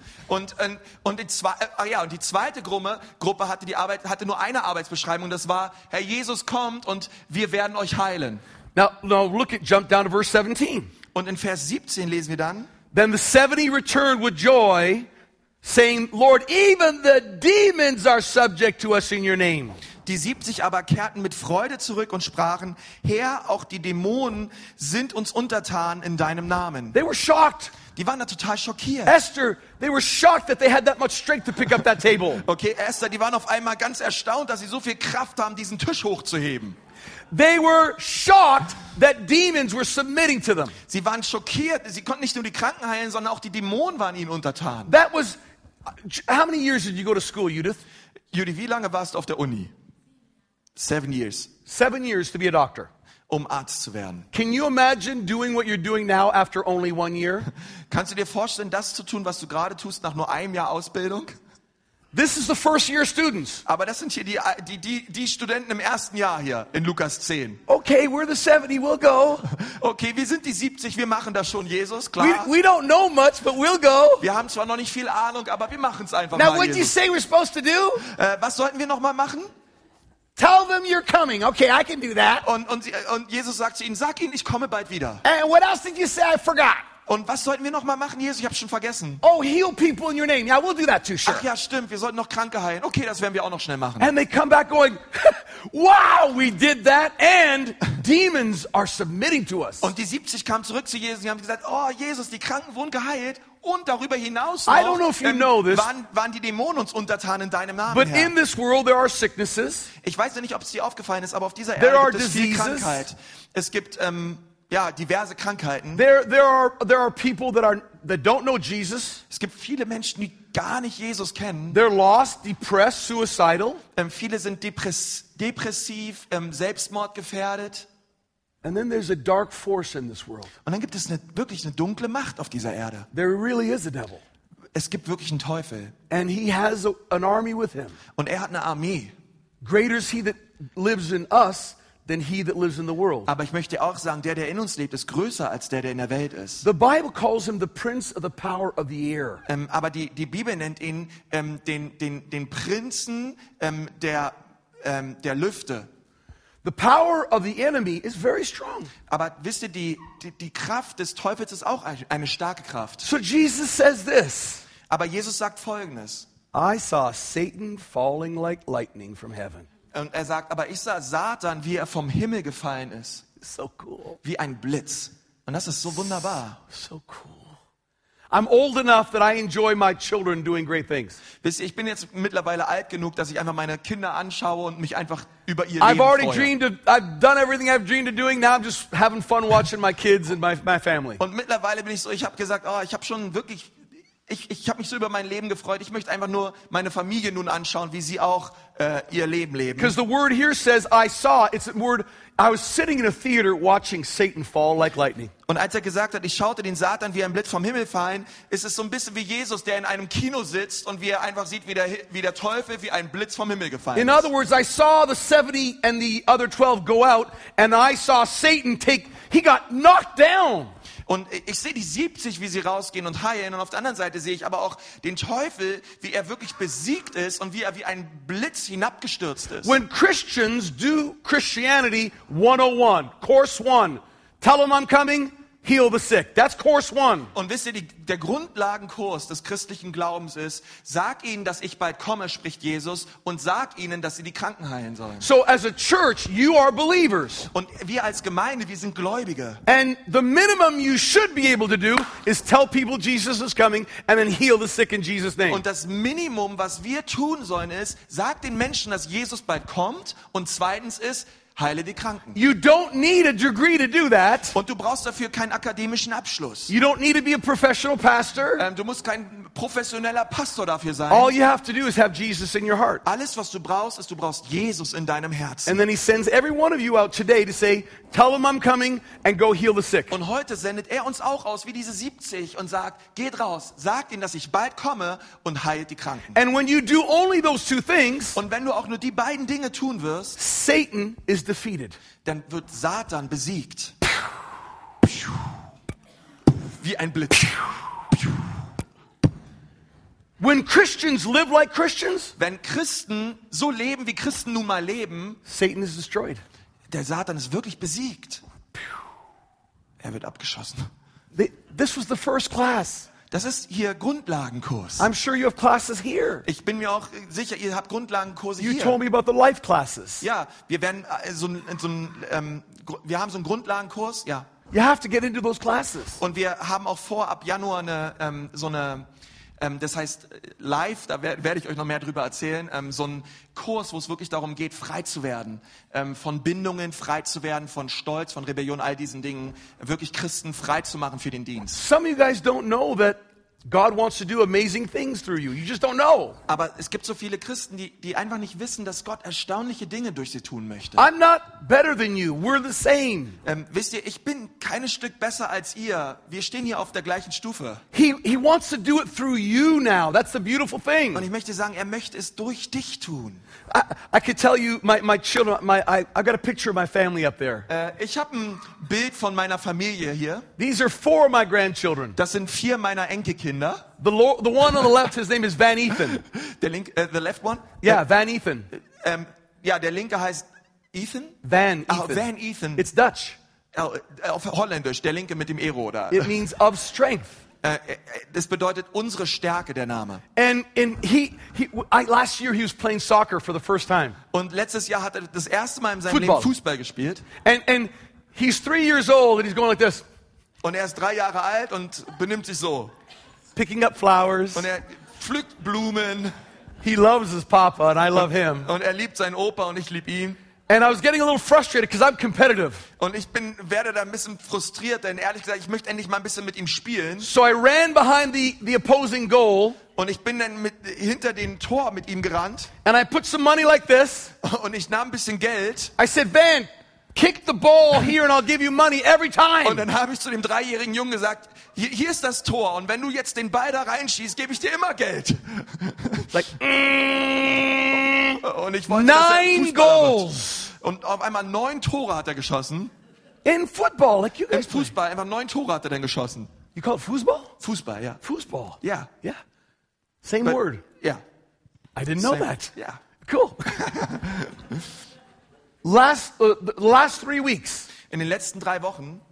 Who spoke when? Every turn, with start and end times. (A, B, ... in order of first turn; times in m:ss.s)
0:00.3-0:08.4 A
0:08.7-0:10.9 B
0:11.1-0:12.7 A
0:12.9-0:15.1 B
0:15.6-0:19.8 B
0:20.0-0:27.0 A
0:26.9-0:27.7 B
0:27.9-0:29.2 A
0:29.0-0:32.4 B
0:32.4-0:36.8 A
0:37.3-0:40.7 B
0:40.9-0:44.9 A
0:44.9-0:45.4 B
0:45.9-0:47.8 B
0:48.3-0:49.7 A
0:50.8-0:51.5 A
0:51.6-0:52.9 B
0:53.3-0:54.3 A
0:54.3-0:57.5 B
0:57.9-1:01.3 A
1:02.1-1:03.6 B
1:03.6-1:07.6 A
1:07.7-1:09.5 B
1:09.5-1:12.5 A
1:12.2-1:14.2 B
1:14.2-1:16.9 A
1:16.3-1:18.0 B
1:18.0-1:19.5 A
1:20.4-1:22.4 B
1:22.4-1:25.2 A
1:25.2-1:26.8 B
1:27.1-1:29.2 A
1:29.2-1:31.5 B
1:31.2-1:34.1 A
1:34.0-1:39.9 B
1:39.8-1:48.3 A
1:44.7-1:45.9 B
1:47.9-1:49.9 B
1:50.0-1:56.0 A
1:51.8-1:53.1 B
1:56.0-1:59.2 B
1:59.3-2:01.8 A
2:01.7-2:03.8 B
2:04.0-2:07.9 A
2:08.6-2:10.5 B
2:10.6-2:13.1 A
2:13.1-2:14.2 B
2:14.7-2:15.9 A
2:16.1-2:18.0 B
2:18.2-2:19.1 A
2:19.6-2:23.3 B
2:23.3-2:26.6 A
2:26.6-2:29.4 B
2:29.4-2:35.9 A
2:36.6-2:38.9 B
2:39.1-2:43.0 A
2:43.0-2:44.6 B
2:44.9-2:46.3 A
2:46.5-2:49.7 B
2:49.9-2:53.2 A
2:53.4-2:54.2 B
2:54.2-2:56.6 A
2:56.7-2:57.6 B
2:58.3-3:01.2 B
3:01.4-3:06.5 A
3:05.8-3:11.2 B
3:11.2-3:13.7 A
3:14.3-3:20.0 A
3:19.8-3:25.3 B
3:25.5-3:34.3 A
3:33.9-3:40.7 B
3:41.1-3:49.8 A
3:49.6-3:57.3 B
3:57.3-4:05.3 A
4:05.2-4:07.5 B
4:07.5-4:09.6 A
4:09.6-4:15.6 B
4:15.5-4:22.4 A
4:22.3-4:24.6 B
4:24.5-4:26.7 A
4:26.7-4:28.6 B
4:28.6-4:31.3 A
4:31.1-4:33.0 B
4:33.0-4:35.8 A
4:35.6-4:40.2 B
4:40.1-4:46.4 A
4:46.3-4:48.4 B
4:48.3-4:50.4 A
4:50.4-4:52.0 B
4:52.2-4:54.0 A
4:56.8-4:58.2 A
5:00.4-5:02.3 B
5:02.4-5:05.4 A
5:05.4-5:06.4 B
5:06.9-5:08.4 A
5:10.0-5:10.9 A
5:11.3-5:13.1 B
5:13.3-5:15.1 A
5:15.0-5:16.4 B
5:16.4-5:19.0 A
5:18.6-5:20.2 B
5:20.2-5:24.5 A
5:24.7-5:26.2 B
5:26.2-5:29.1 A
5:29.6-5:41.8 A
5:41.7-5:46.4 B
5:46.5-5:51.1 A
5:51.0-5:53.4 B
5:53.4-5:57.8 A
5:57.9-6:01.3 B
6:01.1-6:03.4 A
6:03.7-6:07.7 B
6:07.7-6:10.5 A
6:10.6-6:12.2 B
6:12.1-6:13.8 A
6:14.0-6:16.2 B
6:16.1-6:18.0 A
6:17.8-6:18.7 B
6:18.7-6:22.9 A
6:21.4-6:23.4 B
6:23.7-6:26.4 A
6:26.1-6:27.4 B
6:27.6-6:30.2 A
6:30.4-6:34.2 B
6:34.3-6:37.3 A
6:36.1-6:36.5 B
6:37.4-6:40.0 B
6:40.6-6:42.9 A
6:43.5-6:44.7 B
6:44.5-6:46.3 A
6:46.8-6:48.7 B
6:48.2-6:50.4 A
6:50.7-6:52.8 B
6:53.0-6:57.3 A
6:57.2-6:59.8 B
7:00.0-7:02.7 A
7:02.8-7:04.3 B
7:04.4-7:05.9 A
7:06.0-7:09.8 B
7:09.6-7:16.4 A
7:16.3-7:20.7 B
7:18.4-7:22.9 A
7:23.4-7:24.9 B
7:24.5-7:26.5 A
7:26.7-7:27.5 B
7:27.6-7:28.2 A
7:28.2-7:29.4 B
7:28.8-7:29.1 A
7:30.2-7:30.8 B
7:30.4-7:31.2 A
7:31.9-7:32.7 B
7:32.2-7:33.0 A
7:33.2-7:33.6 B
7:33.6-7:34.8 A
7:35.8-7:37.9 B
7:38.1-7:39.2 A